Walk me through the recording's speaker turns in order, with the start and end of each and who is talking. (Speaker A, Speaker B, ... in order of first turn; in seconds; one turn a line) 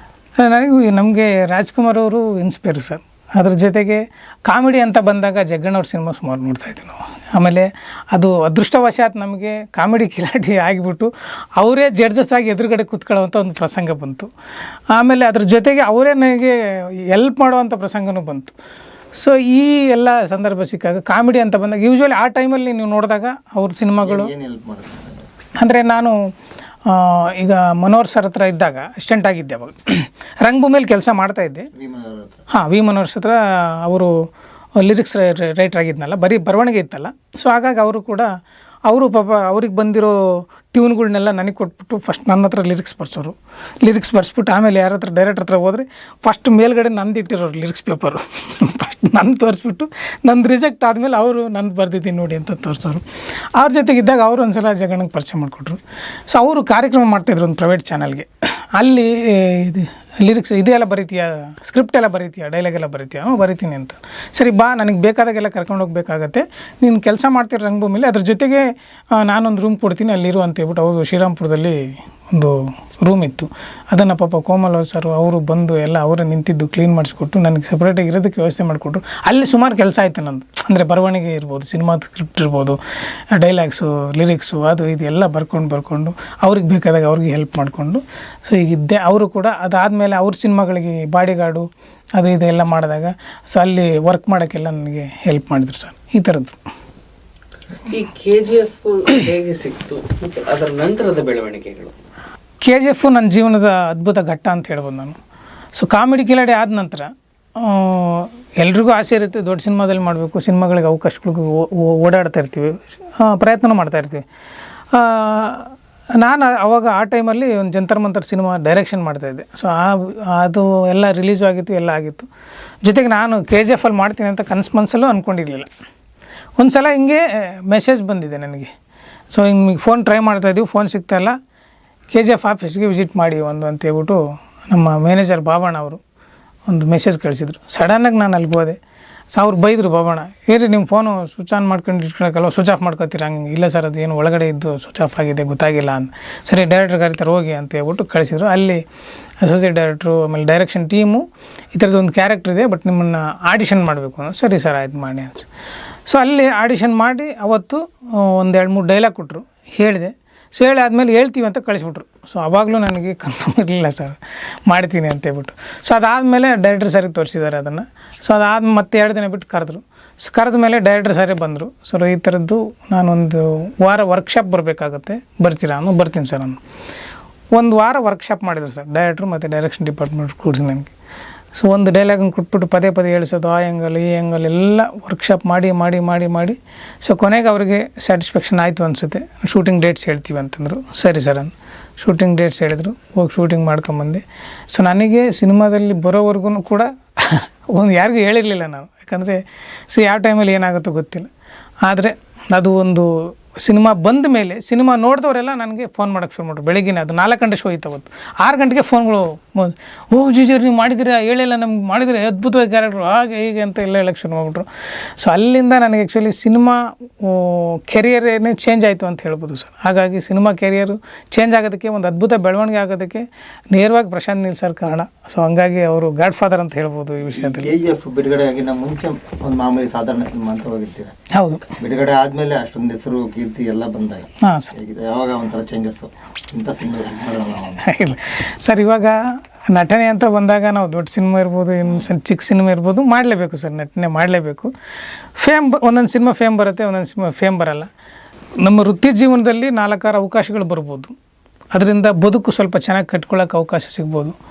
Speaker A: 0.4-14.3
Speaker A: 14.9-18.5
Speaker A: 19.1-24.3
Speaker B: 24.0-25.3
Speaker A: 25.6-26.2
Speaker A: 26.9-31.7
Speaker B: 31.7-32.4
Speaker A: 32.5-34.1
Speaker A: 34.8-38.3
Speaker A: 38.9-82.8
Speaker A: 83.3-96.6
Speaker C: 97.9-101.9
Speaker A: 102.6-105.2
Speaker A: 105.8-114.2
Speaker A: 114.9-122.3
Speaker A: 122.8-125.7
Speaker A: 126.6-128.7
Speaker A: 129.3-131.4
Speaker A: 132.1-136.0
Speaker A: 136.7-138.8
Speaker A: 139.3-148.8
Speaker A: 149.4-155.4
Speaker A: 156.1-176.6
Speaker A: 177.5-180.9
Speaker A: 181.5-201.3
Speaker A: 201.8-214.7
Speaker A: 215.2-227.7
Speaker B: 227.2-231.1
Speaker A: 231.3-231.7
Speaker B: 231.8-237.8
Speaker A: 234.4-234.7
Speaker A: 237.8-244.7
Speaker A: 245.4-247.9
Speaker A: 248.6-251.1
Speaker A: 251.7-254.4